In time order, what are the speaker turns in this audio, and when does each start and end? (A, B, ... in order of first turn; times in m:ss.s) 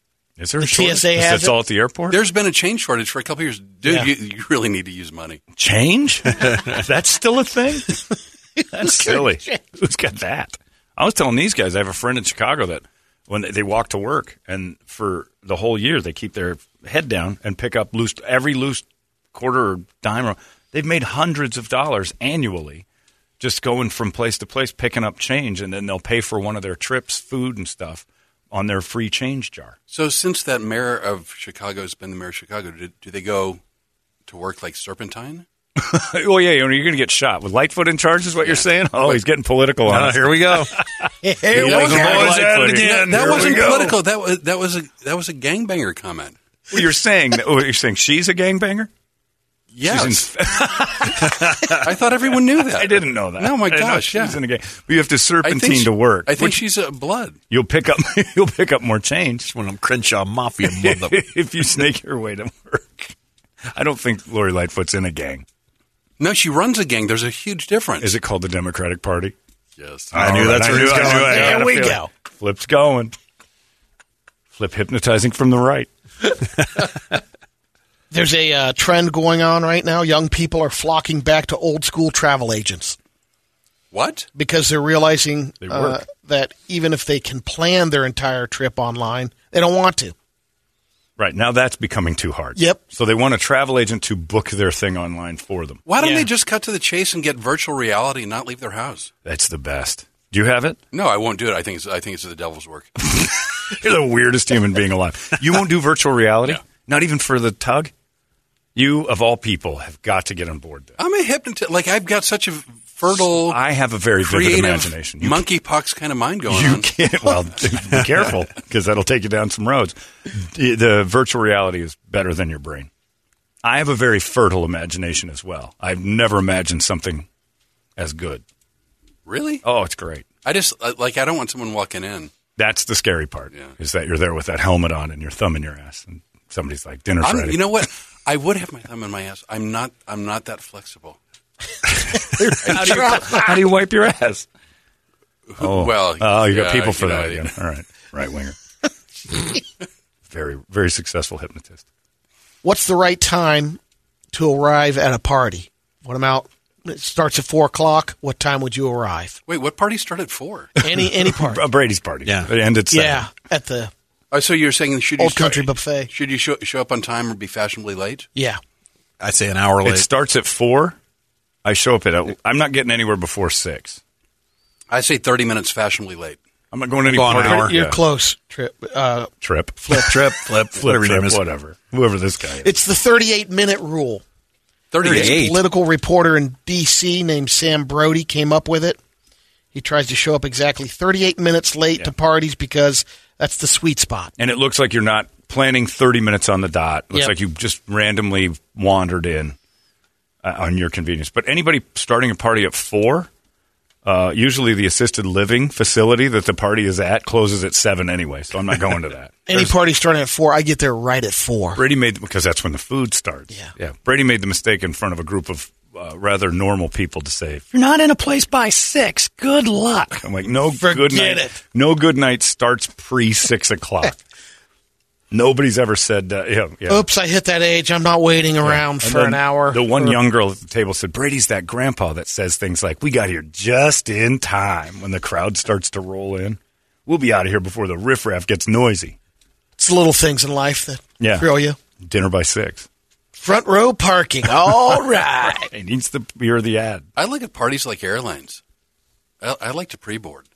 0:00.4-0:02.2 A
0:00.6-0:01.6 B
0:02.1-0:05.4 C
0:05.6-0:08.0 A
0:06.4-0:06.8 D
0:08.7-0:22.8 A
0:08.8-0:09.2 B
0:23.4-0:29.8 A
0:29.9-0:33.6 C
0:34.3-0:35.4 C
0:35.8-0:44.0 A
0:38.4-0:39.2 C
0:39.9-0:40.8 D
0:41.2-0:42.4 B
0:41.5-0:43.9 D
0:41.6-0:46.4 C
0:46.7-0:48.9 A
0:49.7-0:50.3 C
0:49.8-0:52.0 A
0:51.7-0:54.4 C
0:52.6-0:56.6 A
0:55.4-0:57.4 C
0:57.5-0:59.5 A
0:59.5-1:01.2 D
1:00.6-1:03.2 A
1:03.7-1:05.4 A
1:06.2-1:08.2 C
1:08.0-1:09.4 A
1:09.8-1:10.1 C
1:10.1-1:11.7 D
1:10.1-1:13.2 A
1:10.7-1:12.1 B
1:14.5-1:15.9 A
1:18.1-1:23.0 B
1:23.9-1:24.3 C
1:24.4-1:30.1 B
1:25.6-1:26.0 A
1:31.2-1:35.8 A
1:35.9-1:39.1 C
1:36.0-1:36.3 B
1:39.2-1:40.8 A
1:40.9-1:43.0 C
1:43.0-1:47.9 A
1:48.8-1:51.0 A
1:51.0-1:53.6 C
1:53.1-1:55.5 A
1:54.2-1:56.9 C
1:56.5-2:02.9 A
2:03.6-2:07.3 A
2:08.0-2:08.4 A
2:09.3-2:09.6 C
2:09.6-2:10.3 A
2:10.4-2:12.3 C
2:12.6-2:17.8 A
2:17.2-2:21.2 C
2:22.1-2:24.5 A
2:22.2-2:23.6 B
2:22.6-2:23.4 C
2:25.5-2:27.5 C
2:25.6-2:28.6 A
2:30.3-2:31.8 A
2:32.6-2:33.8 B
2:34.3-2:39.4 B
2:39.5-2:40.7 C
2:40.8-2:41.6 B
2:41.2-2:43.3 A
2:42.2-2:42.5 D
2:42.9-2:43.9 B
2:44.3-2:48.3 C
2:45.2-2:46.1 B
2:48.4-2:48.6 B
2:49.2-2:50.0 D
2:49.8-2:51.0 A
2:51.6-2:54.0 A
2:54.9-2:56.4 C
2:56.7-2:58.0 A
2:57.1-2:57.8 D
2:57.2-2:59.3 B
2:59.4-3:02.7 A
2:59.8-3:00.1 B
2:59.9-3:01.4 D
3:02.6-3:04.2 B
3:04.9-3:05.4 C
3:05.0-3:05.6 D
3:05.0-3:09.0 B
3:09.7-3:14.3 B
3:14.4-3:19.6 A
3:20.4-3:23.3 A
3:24.0-3:29.7 A
3:29.5-3:31.8 B
3:31.8-3:44.2 A
3:40.7-3:41.6 B
3:45.3-3:47.1 A
3:46.9-3:50.2 B
3:48.6-3:59.2 A
3:59.8-4:01.8 B
4:01.2-4:01.5 A
4:02.0-4:02.9 A
4:03.4-4:05.7 B
4:04.7-4:07.1 A
4:07.2-4:08.6 C
4:09.4-4:10.5 C